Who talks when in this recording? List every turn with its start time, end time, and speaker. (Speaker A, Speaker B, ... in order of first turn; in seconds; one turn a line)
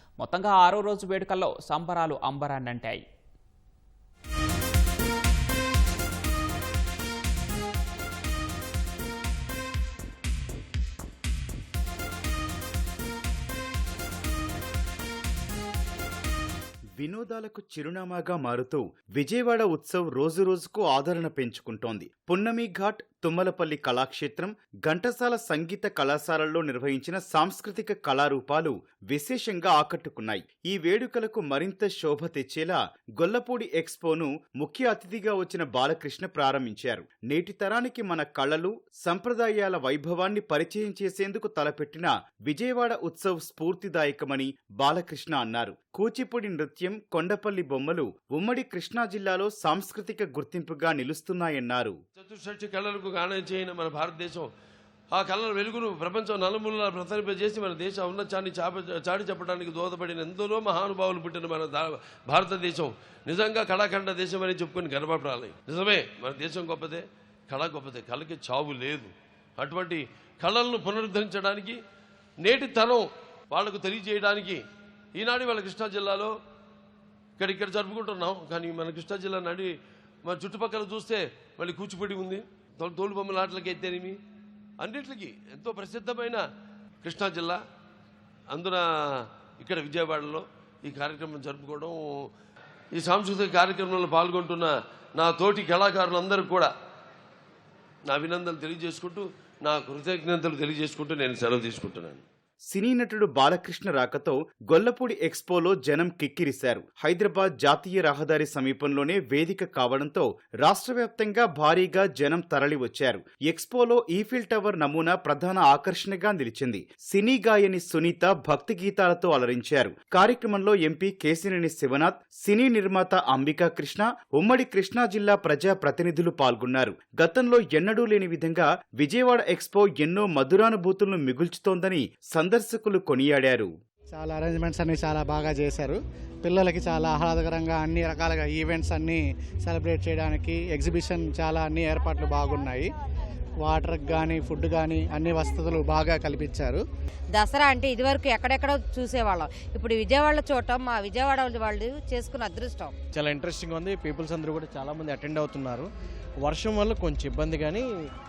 Speaker A: 0.2-3.0
Speaker B: 17.0-52.0
Speaker C: 52.2-54.5
Speaker C: 55.1-71.8
Speaker C: 72.4-74.6
Speaker C: 75.1-76.3
Speaker C: 77.4-79.7
Speaker C: 80.2-84.2
Speaker C: 84.8-86.4
Speaker C: 87.0-87.6
Speaker C: 88.5-92.3
Speaker C: 92.9-96.7
Speaker C: 98.1-102.2
Speaker B: 102.7-133.7
Speaker D: 134.1-142.9
Speaker D: 143.6-146.8
Speaker E: 147.3-152.9
Speaker F: 153.1-155.9
Speaker F: 156.4-157.9